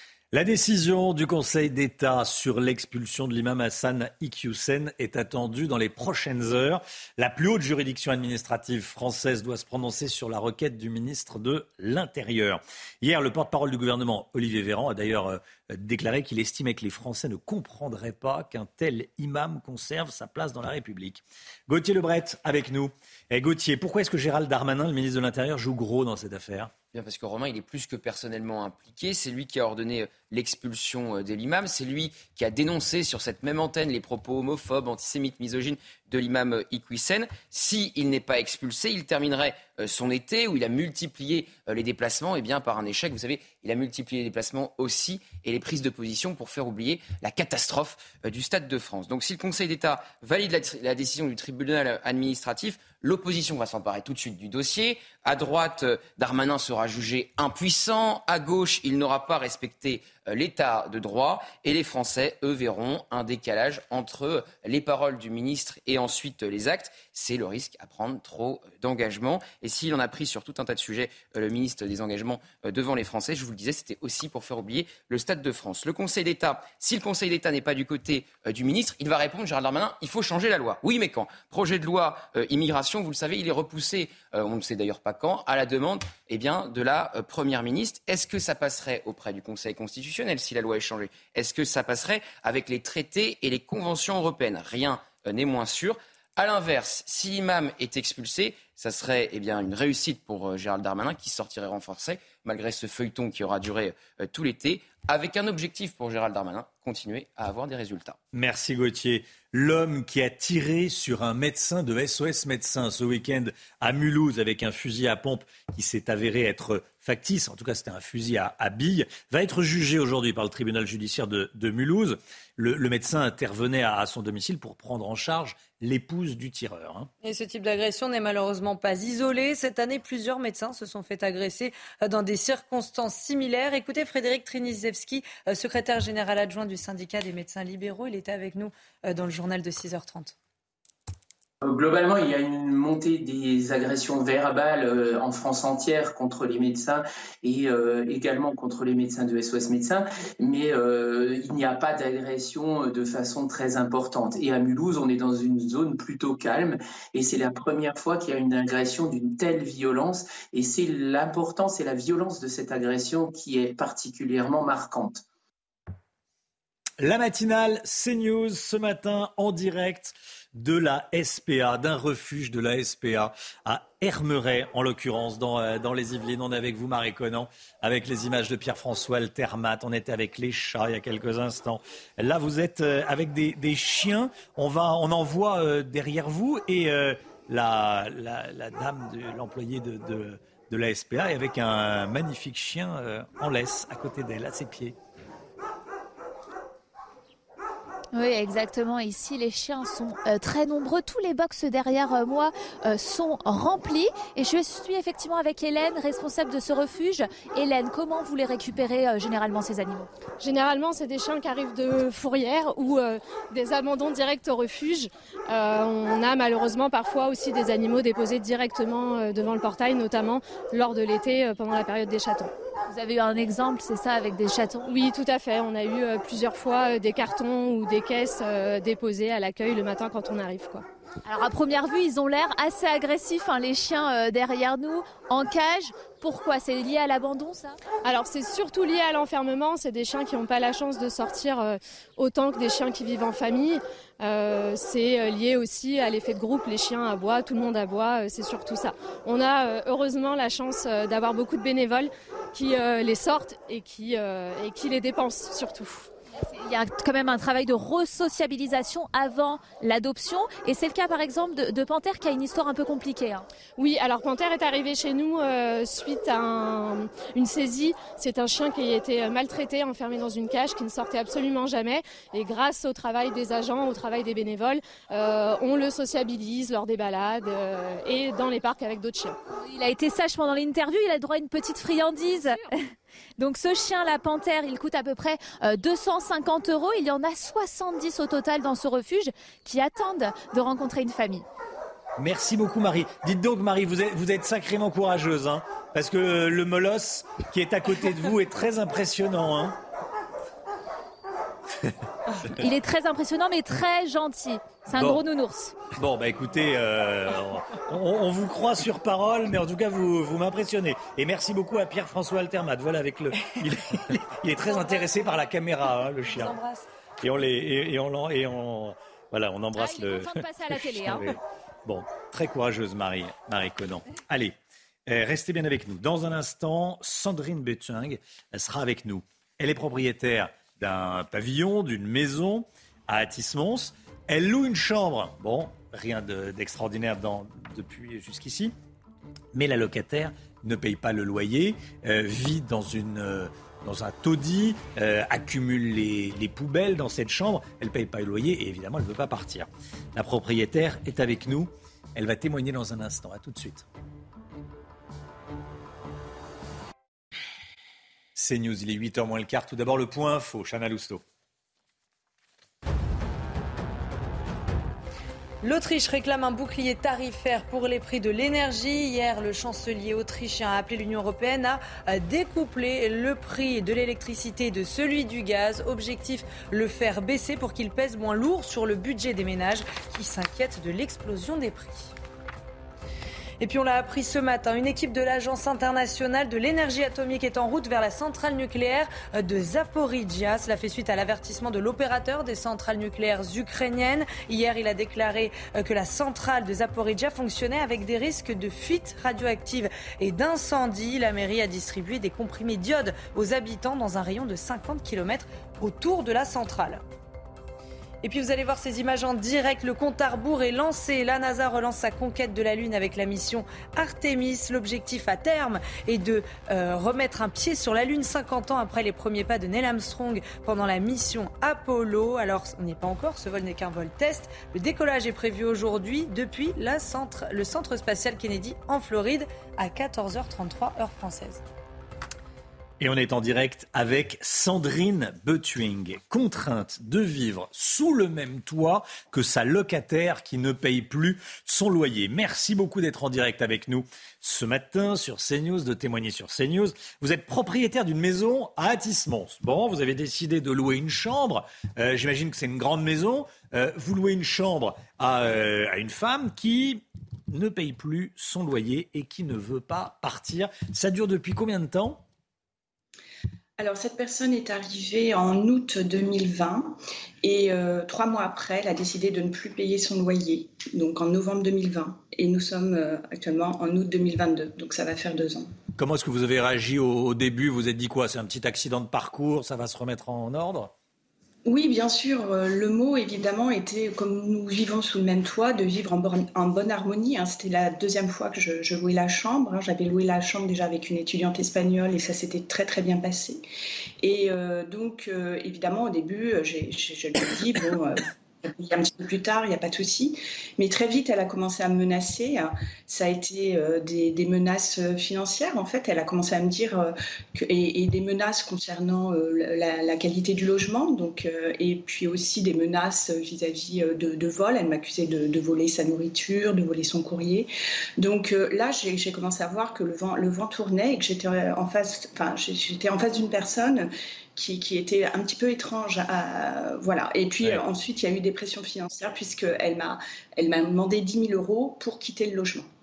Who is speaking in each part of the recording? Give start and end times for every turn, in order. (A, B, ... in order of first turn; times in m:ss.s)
0:00.3-0:26.7 A
0:26.9-1:48.2 B
1:48.3-2:07.1 A
2:07.2-2:20.4 C
2:21.6-2:45.2 D
2:47.0-3:15.0 A
3:18.1-3:30.1 E
3:30.4-3:42.5 F
3:42.9-3:44.9 E
3:44.9-3:50.8 F
3:51.2-3:57.8 E
3:58.0-4:16.1 F
4:16.4-4:23.5 E
4:23.8-4:39.4 F
4:39.5-4:42.8 E
4:43.4-4:51.4 E
4:52.2-4:59.8 A
5:02.5-5:05.8 E
5:04.9-5:05.2 A
5:06.0-5:16.6 A
5:14.7-5:15.5 C
5:16.3-5:16.9 C
5:17.2-5:24.6 A
5:19.8-5:21.4 E
5:25.1-5:38.7 A
5:39.5-5:53.8 A
5:58.4-6:01.2 A
6:05.6-6:22.1 C
6:23.6-6:47.0 C
6:48.2-7:11.6 C
7:13.0-7:42.2 A
7:43.8-7:55.7 G
7:56.0-8:00.9 A
8:01.7-8:13.6 G
8:14.2-8:52.9 G